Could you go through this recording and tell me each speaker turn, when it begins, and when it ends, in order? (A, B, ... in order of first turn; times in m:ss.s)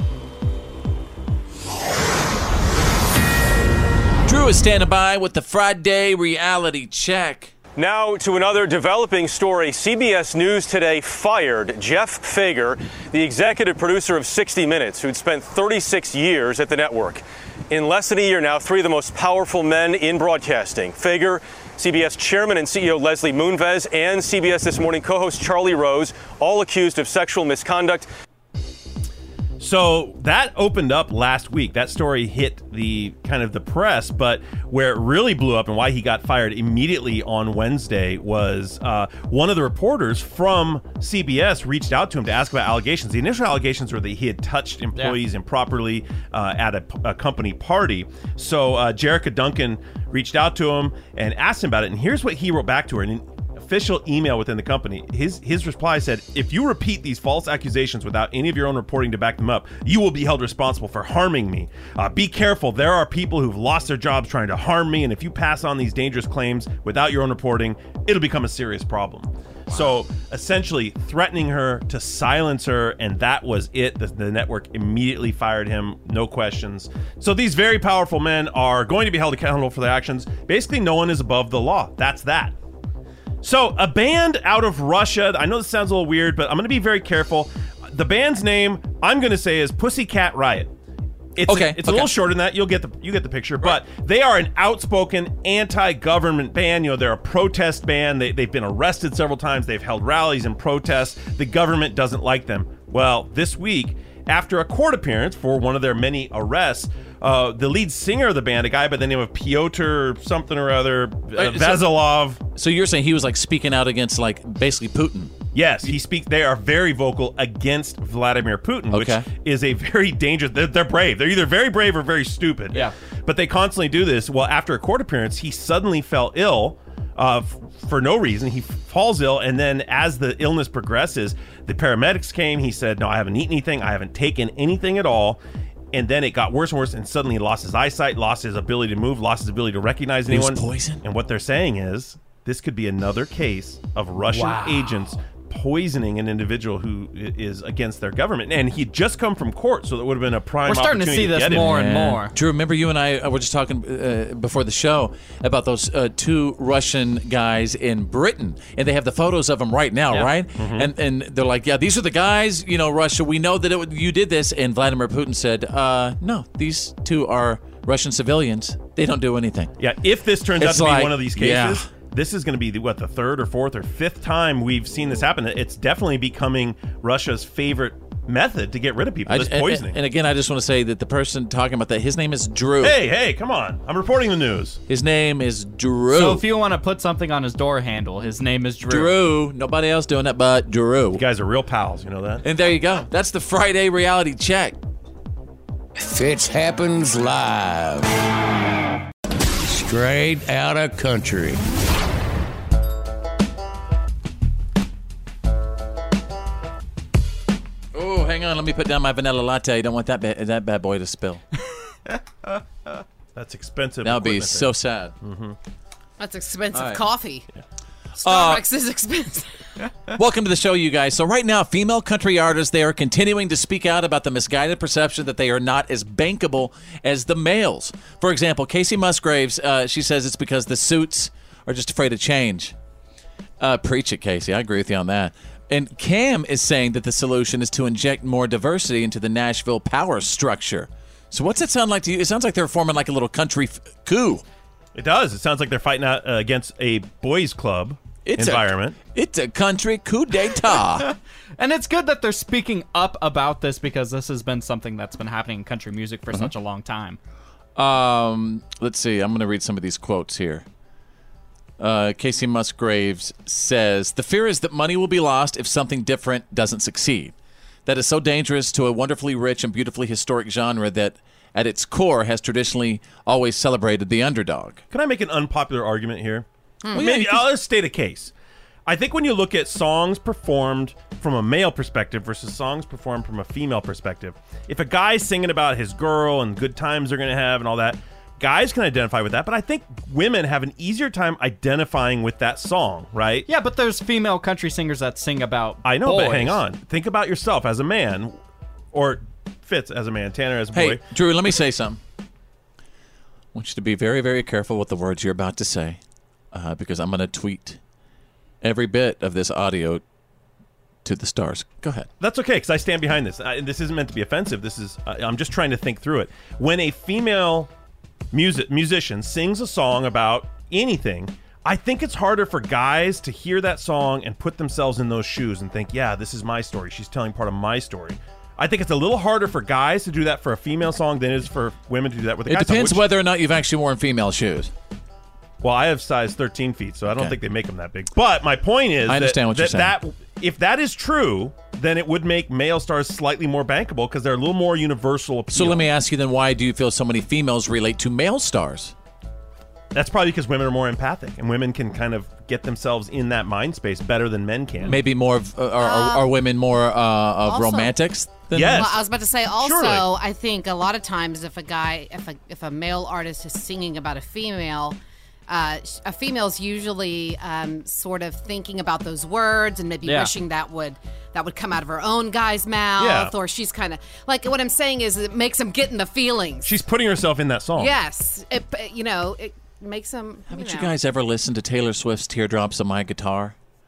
0:04.3-0:07.5 A
0:07.8-0:28.1 B
0:29.6-1:22.6 C
1:23.4-1:30.7 C
1:31.4-1:52.4 C
1:31.5-1:32.2 A
1:51.4-1:52.0 A
1:52.6-1:55.3 A
1:55.5-2:15.4 C
1:58.9-1:59.3 A
2:15.9-2:31.7 C
2:20.3-2:21.0 A
2:24.3-2:25.0 D
2:30.7-2:32.3 D
2:31.5-2:49.7 A
2:40.6-2:40.9 C
2:49.8-3:00.0 C
2:50.6-2:51.9 A
2:59.3-3:03.0 A
3:02.8-3:04.8 C
3:04.9-3:06.5 A
3:06.1-3:09.1 D
3:08.9-3:11.2 A
3:11.2-3:12.4 C
3:12.4-3:14.8 A
3:16.0-3:18.1 E
3:19.6-3:21.6 E
3:27.9-3:31.4 A
3:33.4-3:35.6 C
3:34.0-3:35.2 A
3:36.2-3:37.5 F
3:36.7-3:37.0 A
3:38.2-3:39.5 F
3:38.2-3:38.6 A
3:40.1-3:52.7 A
3:53.6-4:04.4 A
4:05.0-4:09.0 C
4:08.2-4:11.1 A
4:11.6-4:17.2 D
4:17.8-4:20.6 A
4:21.8-4:27.3 A
4:27.9-4:34.8 A
4:34.9-4:38.3 C
4:36.9-4:37.5 A
4:38.9-4:53.5 C
4:53.5-4:56.6 D
4:55.8-4:58.4 C
4:58.9-5:01.0 C
5:00.7-5:02.0 A
5:03.5-5:06.0 A
5:06.5-5:07.8 A
5:08.6-5:10.0 A
5:11.0-5:12.1 A
5:12.2-5:17.7 C
5:18.3-5:33.0 C
5:32.5-5:34.7 A
5:35.6-5:45.8 C
5:37.1-5:37.4 A
5:39.1-5:40.0 A
5:45.5-5:48.9 A
5:49.9-5:55.0 C
5:54.8-5:58.9 A
5:55.8-5:56.3 F
5:57.5-5:57.9 F
5:58.5-5:59.0 C
5:58.7-6:05.0 F
5:59.6-6:00.1 C
6:05.5-6:16.7 F
6:10.0-6:10.3 D
6:13.0-6:13.4 C
6:16.6-6:18.0 C
6:17.8-6:20.9 F
6:20.5-6:23.6 A